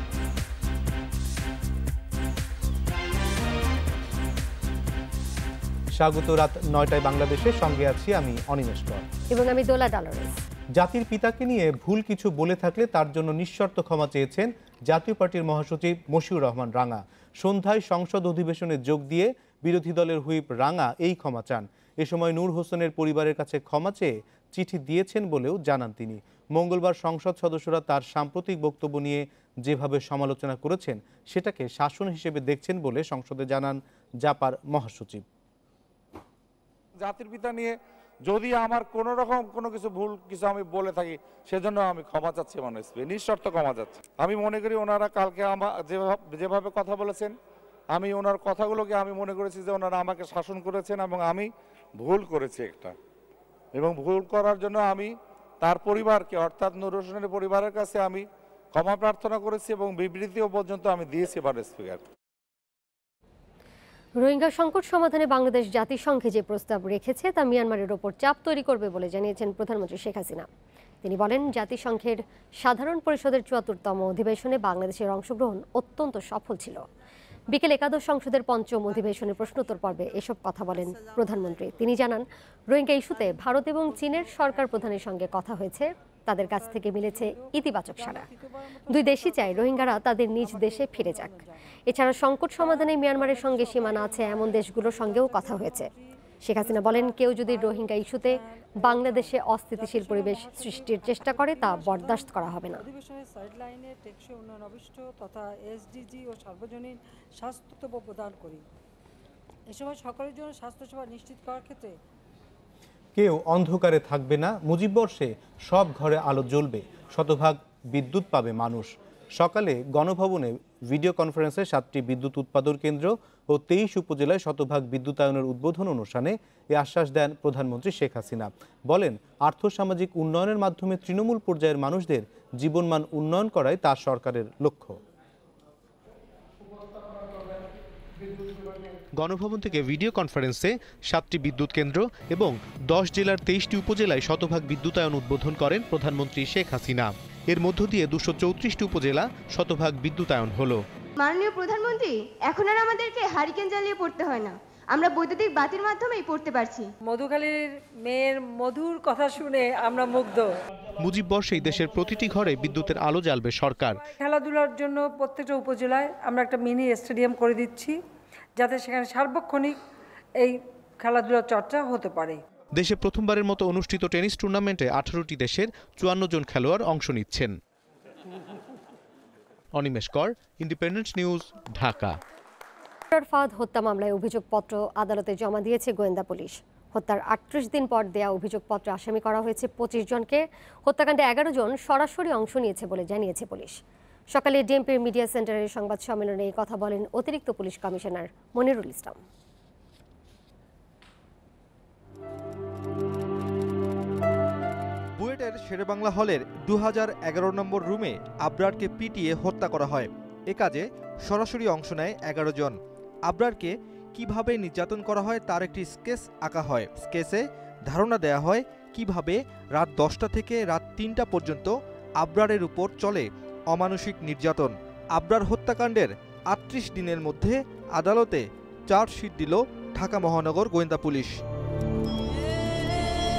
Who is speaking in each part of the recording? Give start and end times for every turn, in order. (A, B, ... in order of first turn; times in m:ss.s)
0:06.0-0:09.0 A
0:09.3-0:10.3 B
0:10.8-0:35.2 A
0:37.0-0:37.7 C
0:38.3-0:47.3 C
0:47.9-0:51.5 C
0:52.0-0:52.9 C
0:53.7-1:02.0 C
1:04.2-1:10.5 B
1:11.0-1:16.8 B
1:17.5-1:28.3 B
1:26.6-1:26.8 D
1:27.3-1:29.7 D
1:28.9-1:35.9 B
1:30.5-1:31.4 D
1:33.2-1:36.0 D
1:36.4-1:42.8 B
1:36.6-1:37.8 D
1:38.8-1:42.3 D
1:42.9-1:48.6 D
1:49.8-1:51.9 D
1:53.2-2:14.9 A
2:19.2-2:30.8 A
2:31.2-2:36.8 E
2:37.1-2:37.5 D
2:38.2-2:40.4 D
2:41.1-2:44.0 A
2:44.2-2:47.9 D
2:48.6-2:49.7 D
2:51.1-2:52.4 D
2:52.8-2:57.5 A
2:59.8-3:02.1 A
3:03.1-3:13.8 B
3:14.3-3:19.2 B
3:25.2-3:32.7 F
3:33.3-3:41.7 F
3:42.2-3:51.3 F